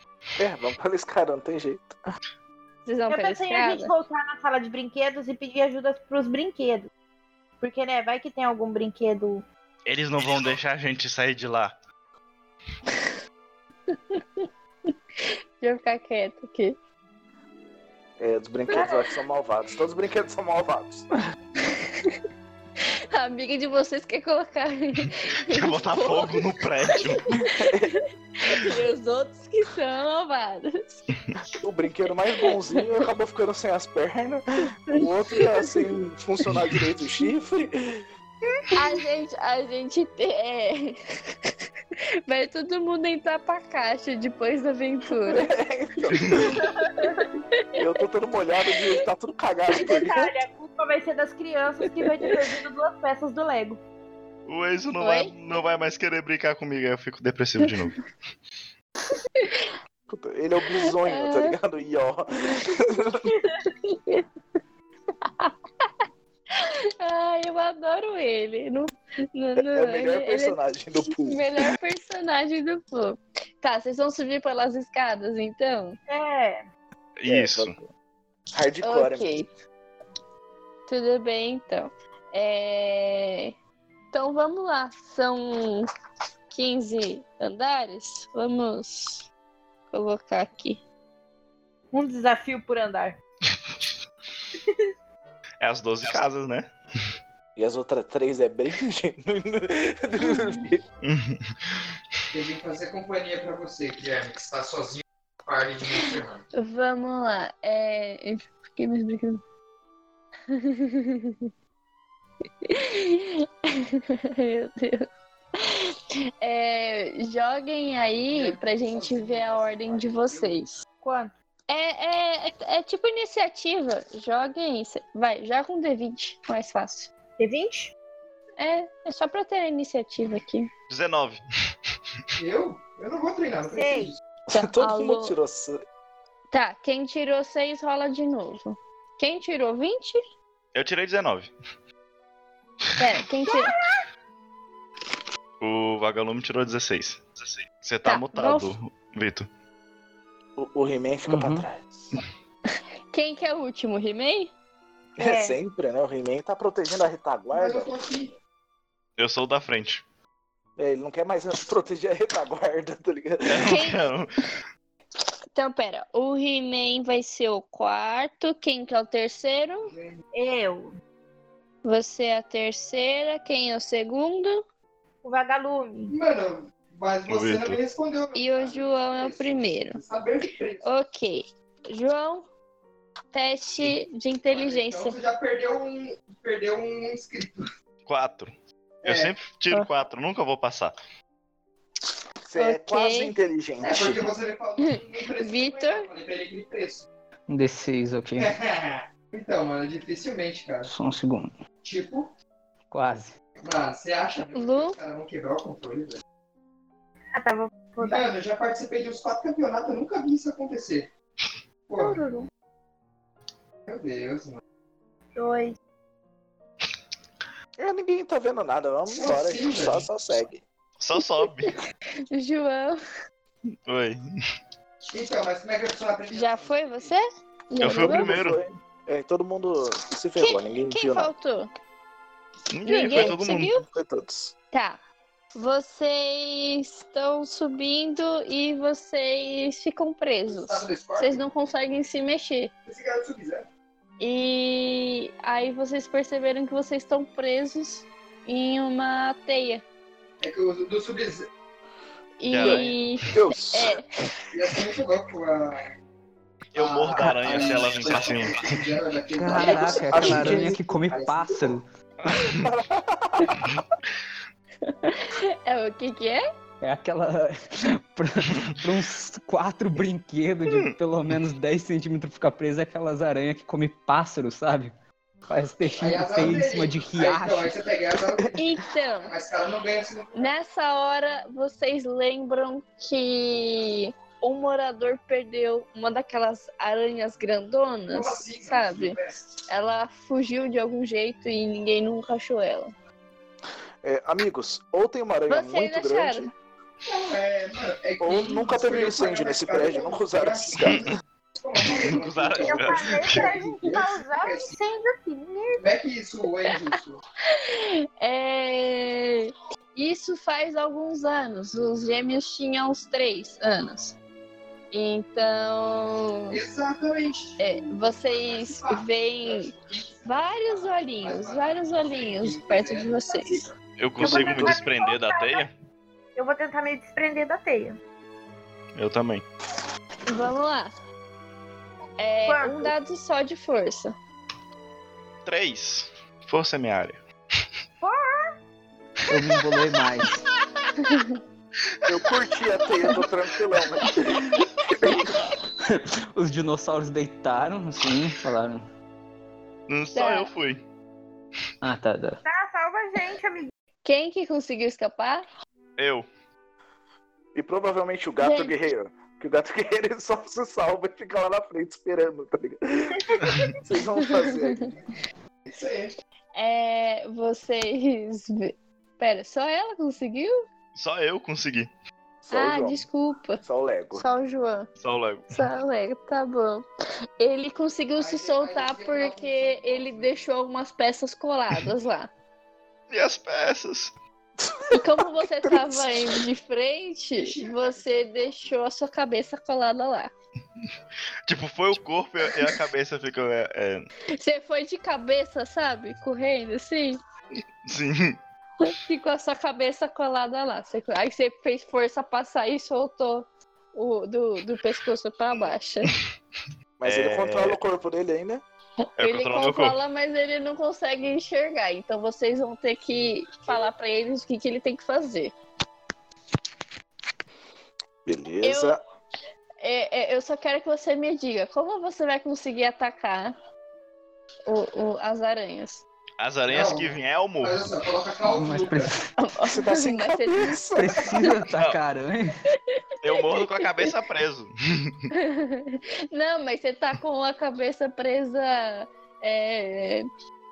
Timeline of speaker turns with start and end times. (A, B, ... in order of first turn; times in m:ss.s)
0:00.4-0:02.0 A
0:02.9-0:03.9 B
0:03.1-0:06.9 C
0:07.6-0:09.4 C
0:09.9-0:11.7 D
0:13.9-0:14.5 B
0:15.6-0:16.8 B
0:18.2-0:21.0 A
0:21.6-0:22.2 B
0:23.1-0:27.0 B
0:25.5-0:27.2 D
0:27.4-0:28.0 A
0:28.4-0:31.0 B
0:31.6-0:38.1 A
0:38.7-0:41.0 B
0:42.3-0:45.5 B
0:45.1-0:46.7 A
0:46.8-0:47.1 C
0:47.8-0:50.3 A
0:49.7-0:53.8 C
0:54.5-0:58.0 D
0:55.0-0:55.3 B
0:59.4-0:59.7 B
1:00.1-1:03.3 A
1:00.9-1:01.6 B
1:03.7-1:04.2 B
1:05.3-1:05.9 B
1:06.5-1:16.0 B
1:09.6-1:11.4 A
1:16.1-1:16.6 C
1:17.2-1:17.7 D
1:17.3-1:17.9 A
1:18.5-1:19.3 A
1:18.8-1:19.5 B
1:20.9-1:23.5 B
1:24.1-1:25.9 B
1:26.5-1:29.3 B
1:29.9-1:30.8 B
1:31.9-1:33.2 C
1:35.6-1:36.7 D
1:37.6-1:40.8 A
1:41.0-1:41.8 D
1:42.3-1:46.4 E
1:46.6-1:49.4 B
1:50.5-1:51.5 B
1:52.7-1:55.1 B
1:55.6-2:00.8 B
1:58.0-2:00.6 E
2:01.0-2:01.3 C
2:01.7-2:07.1 B
2:07.4-2:07.9 C
2:08.6-2:10.7 B
2:10.9-2:11.4 D
2:12.4-2:14.2 E
2:13.7-2:14.1 C
2:14.5-2:15.4 B
2:14.5-2:15.8 A
2:16.5-2:20.2 B
2:20.8-2:21.5 D
2:23.0-2:23.8 B
2:25.6-2:29.5 D
2:28.0-2:28.7 B
2:30.6-2:32.2 A
2:31.3-2:31.7 F
2:33.1-2:34.5 B
2:35.2-2:37.9 A
2:35.2-2:35.6 C
2:37.5-2:38.3 E
2:39.2-2:40.0 D
2:40.8-2:43.8 A
2:43.5-2:44.3 D
2:43.6-2:44.0 B
2:45.6-2:49.9 B
2:49.9-2:50.2 E
2:50.3-2:50.9 C
2:51.8-2:54.6 B
2:55.2-2:56.1 C
2:56.1-3:00.9 E
2:57.3-2:57.8 D
2:58.4-3:00.0 B
3:00.8-3:02.4 B
3:03.3-3:05.2 B
3:04.5-3:07.6 E
3:08.1-3:08.5 D
3:09.0-3:09.4 E
3:09.0-3:10.9 D
3:12.4-3:14.3 A
3:12.6-3:13.3 B
3:13.8-3:17.1 E
3:15.4-3:16.1 B
3:17.5-3:18.5 F
3:18.4-3:20.9 E
3:20.8-3:21.5 F
3:21.8-3:22.3 E
3:22.9-3:23.3 F
3:23.6-3:26.2 E
3:24.5-3:25.0 B
3:27.4-3:28.3 C
3:28.0-3:31.1 E
3:31.9-3:32.2 E
3:32.0-3:32.5 C
3:33.9-3:34.6 E
3:35.4-3:35.8 C
3:37.8-3:40.6 A
3:39.1-3:40.1 E
3:41.0-3:41.8 D
3:42.3-3:43.0 B
3:43.9-3:44.4 D
3:45.1-3:47.1 E
3:46.3-3:48.3 B
3:47.8-3:48.6 D
3:47.8-3:51.3 A
3:50.4-3:51.7 B
3:52.7-3:53.8 D
3:52.9-3:53.8 B
3:53.1-3:54.5 A
3:54.7-3:55.0 B
3:55.6-4:02.7 B
4:00.5-4:01.5 E
4:02.9-4:03.7 E
4:04.2-4:09.8 B
4:10.4-4:11.5 E
4:12.4-4:14.0 B
4:12.5-4:12.9 D
4:12.6-4:14.0 A
4:14.5-4:15.9 E
4:16.7-4:18.9 D
4:16.8-4:21.8 E
4:19.3-4:21.8 F
4:19.6-4:20.8 A
4:22.3-4:22.7 D
4:22.3-4:23.6 A
4:24.8-4:26.4 B
4:26.8-4:27.6 F
4:28.1-4:34.9 F
4:30.7-4:30.9 D
4:35.5-4:37.8 F
4:36.0-4:40.5 E
4:38.6-4:39.3 B
4:40.4-4:49.2 B
4:48.1-4:49.4 E
4:49.7-4:52.9 B
4:54.0-4:56.5 A
4:55.5-4:56.5 B
4:57.1-5:04.8 E
4:58.2-5:01.1 A
5:00.8-5:01.1 D
5:01.8-5:03.6 D
5:02.7-5:05.8 C
5:05.8-5:07.2 E
5:07.5-5:14.2 B
5:14.9-5:16.6 B
5:16.5-5:23.7 E
5:17.6-5:19.7 B
5:20.2-5:23.7 B
5:24.0-5:25.7 D
5:24.2-5:24.8 A
5:24.2-5:25.6 C
5:26.4-5:28.0 C
5:29.0-5:29.4 D
5:30.3-5:30.9 B
5:32.2-5:34.2 B
5:32.5-5:32.9 C
5:35.4-5:37.2 D
5:38.0-5:38.5 C
5:39.3-5:40.5 F
5:41.0-5:41.4 B
5:42.1-5:45.4 A
5:45.9-5:48.9 F
5:49.9-5:50.8 D
5:50.2-5:50.5 B
5:51.8-5:52.4 F
5:52.4-5:53.7 C
5:54.0-5:55.4 B
5:56.0-5:56.3 D
5:57.6-6:04.9 A
5:58.4-5:58.7 B
6:03.3-6:03.7 C
6:04.3-6:04.7 B
6:05.7-6:06.1 E
6:06.6-6:10.6 B
6:11.0-6:11.9 D
6:12.4-6:13.0 A
6:12.5-6:13.6 B
6:13.6-6:14.2 A
6:14.2-6:14.9 B
6:15.0-6:15.5 D
6:15.5-6:16.8 B
6:17.4-6:22.3 B
6:18.2-6:20.4 E
6:23.1-6:24.1 D
6:24.6-6:26.1 A
6:24.9-6:30.3 B
6:27.4-6:28.3 E
6:31.5-6:34.1 D
6:34.4-6:37.2 B
6:37.9-6:38.4 D
6:38.8-6:46.1 B
6:47.0-6:48.6 A
6:47.0-6:47.8 D
6:49.2-6:55.5 B
6:49.2-6:50.0 D
6:58.2-6:59.0 A
6:58.6-6:59.0 B
6:59.8-7:03.5 B
7:04.7-7:06.0 B
7:06.4-7:07.8 D
7:06.7-7:09.1 E
7:08.4-7:09.3 F
7:09.4-7:10.8 B
7:09.7-7:11.4 A
7:10.9-7:12.6 F
7:13.2-7:15.2 D
7:13.4-7:14.1 B
7:15.3-7:20.3 B